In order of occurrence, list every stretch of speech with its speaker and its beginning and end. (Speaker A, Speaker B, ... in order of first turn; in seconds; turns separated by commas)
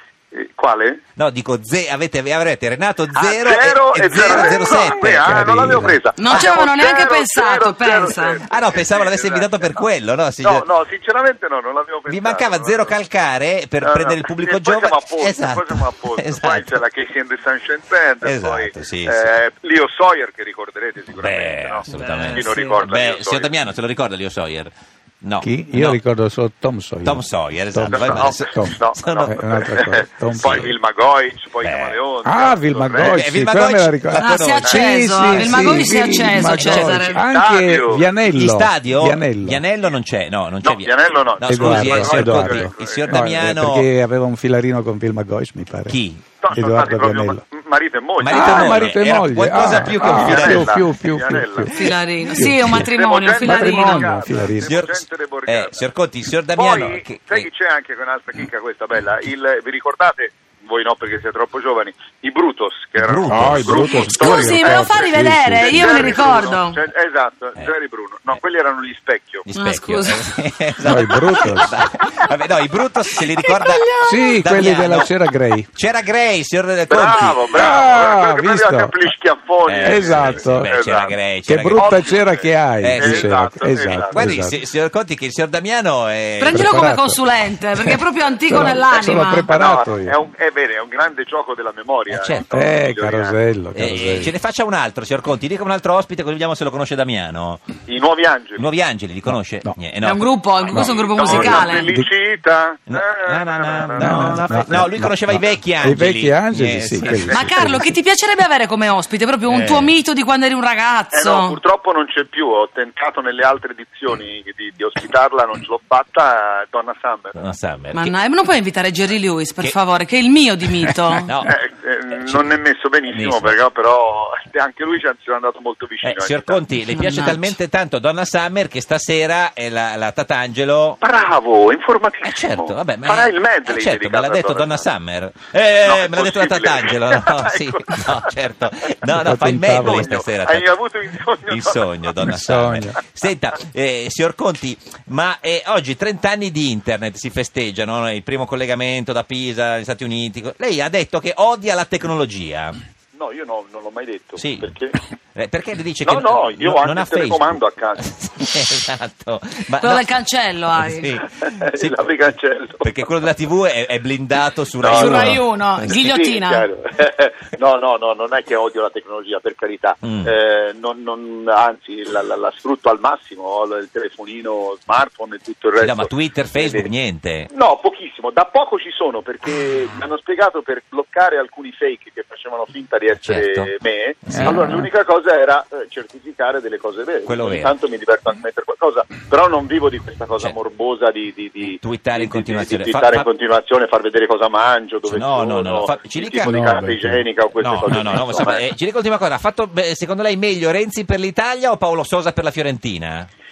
Speaker A: 0.3-1.0, Speaker B: 1.1-5.4, Speaker A: 3.1-9.8, Speaker C: 5.2-6.0, Speaker D: 6.2-8.4, Speaker B: 6.3-6.5, Speaker B: 8.5-10.6, Speaker A: 10.4-12.9, Speaker B: 12.1-16.8, Speaker A: 13.8-23.6, Speaker B: 18.2-19.3, Speaker B: 21.2-26.0, Speaker D: 21.9-22.8, Speaker C: 25.4-30.7, Speaker B: 27.0-29.4, Speaker A: 27.9-33.3, Speaker B: 30.4-30.7, Speaker B: 31.6-32.0, Speaker C: 32.2-39.6, Speaker B: 33.0-35.7, Speaker D: 34.2-37.2, Speaker B: 36.5-37.0, Speaker A: 37.1-38.1, Speaker B: 38.2-43.9, Speaker A: 40.6-43.4, Speaker C: 41.4-46.0, Speaker B: 45.9-46.2, Speaker A: 46.4-48.9, Speaker C: 46.5-47.4, Speaker B: 48.2-50.7, Speaker C: 48.3-52.9, Speaker A: 49.5-51.8, Speaker D: 51.7-54.4, Speaker A: 52.7-55.9, Speaker C: 53.4-54.7, Speaker B: 54.6-57.5, Speaker A: 56.5-69.5, Speaker B: 63.0-63.9, Speaker C: 63.3-66.2, Speaker D: 63.9-66.8, Speaker B: 69.4-75.1, Speaker D: 69.5-70.3, Speaker C: 70.8-71.7, Speaker D: 70.9-72.2, Speaker D: 73.1-74.4, Speaker C: 74.0-75.7, Speaker B: 75.7-77.8, Speaker A: 76.9-81.2, Speaker C: 77.5-79.1, Speaker B: 79.7-82.2, Speaker C: 79.8-80.7, Speaker C: 81.5-84.6, Speaker A: 81.7-84.5, Speaker B: 82.8-83.3, Speaker B: 83.9-86.7, Speaker D: 86.4-89.5, Speaker C: 86.5-87.2, Speaker C: 87.8-90.1, Speaker A: 89.5-93.3, Speaker B: 92.1-92.6, Speaker C: 92.5-94.3, Speaker B: 93.7-97.7, Speaker A: 97.8-98.7, Speaker B: 98.6-100.9, Speaker D: 100.0-101.9, Speaker C: 100.7-102.1, Speaker A: 100.9-104.6, Speaker B: 102.9-107.4, Speaker C: 104.0-107.9, Speaker A: 107.3-107.7, Speaker D: 107.3-111.6, Speaker B: 109.5-109.9, Speaker A: 111.1-117.5, Speaker B: 117.3-118.1, Speaker D: 117.9-121.3, Speaker B: 121.2-121.5, Speaker A: 121.4-126.6, Speaker B: 122.1-123.6, Speaker B: 126.0-131.0, Speaker D: 126.9-127.5, Speaker A: 131.0-134.9, Speaker B: 132.2-140.7, Speaker A: 135.8-138.3, Speaker C: 139.1-140.1, Speaker A: 139.7-142.3, Speaker B: 141.5-152.8, Speaker C: 142.2-143.0, Speaker A: 153.1-155.0, Speaker B: 154.4-154.7, Speaker B: 155.3-160.1, Speaker A: 156.0-158.0, Speaker D: 159.8-161.1, Speaker B: 160.7-162.1, Speaker A: 161.3-162.9, Speaker B: 162.8-166.0, Speaker A: 164.8-165.3, Speaker D: 164.9-166.6, Speaker A: 165.9-176.9, Speaker B: 170.0-170.3, Speaker B: 175.8-177.5, Speaker A: 177.5-198.6, Speaker B: 183.2-183.7, Speaker B: 184.2-184.8, Speaker B: 187.3-187.7, Speaker B: 191.6-193.2, Speaker B: 195.1-196.5, Speaker C: 196.4-197.2, Speaker B: 197.6-203.3